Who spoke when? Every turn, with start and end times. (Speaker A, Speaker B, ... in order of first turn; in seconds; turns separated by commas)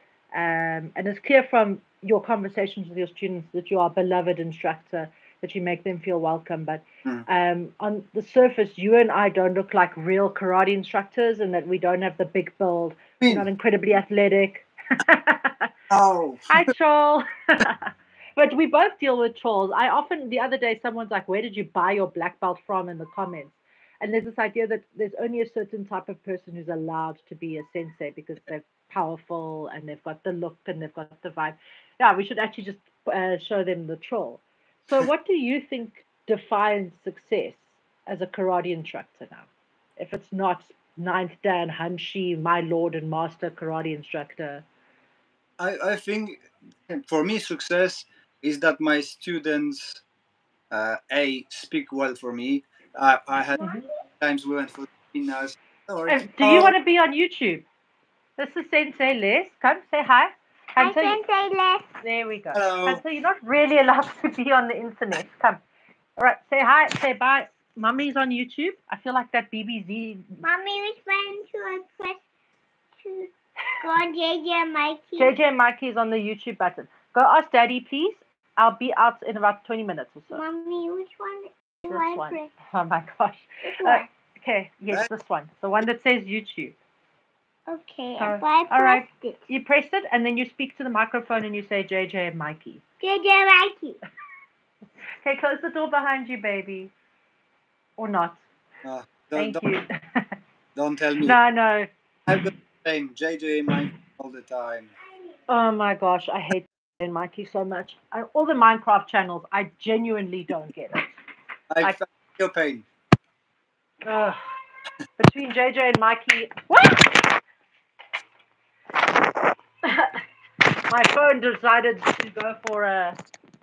Speaker A: 0.3-15.7, Speaker B: 15.9-16.7, Speaker A: 16.5-44.6, Speaker B: 45.6-50.0, Speaker B: 50.7-53.6, Speaker B: 54.2-56.7, Speaker A: 56.1-57.6, Speaker A: 58.4-61.2, Speaker C: 60.8-62.0, Speaker A: 62.0-65.6, Speaker B: 62.5-63.0, Speaker A: 66.2-70.4, Speaker C: 70.4-72.2, Speaker C: 73.0-75.3, Speaker A: 75.2-80.4, Speaker C: 80.3-82.5, Speaker A: 81.9-86.8, Speaker C: 83.8-84.0, Speaker C: 87.7-89.4, Speaker A: 88.2-92.8, Speaker C: 93.0-94.0, Speaker A: 95.2-96.9, Speaker A: 98.0-98.4, Speaker B: 98.8-99.6, Speaker A: 99.4-100.3, Speaker B: 100.8-101.4, Speaker A: 101.2-101.9, Speaker B: 102.3-104.9, Speaker A: 105.5-111.2, Speaker B: 111.7-112.8, Speaker A: 114.0-114.4, Speaker A: 115.2-117.3, Speaker A: 119.8-120.2, Speaker A: 120.9-123.2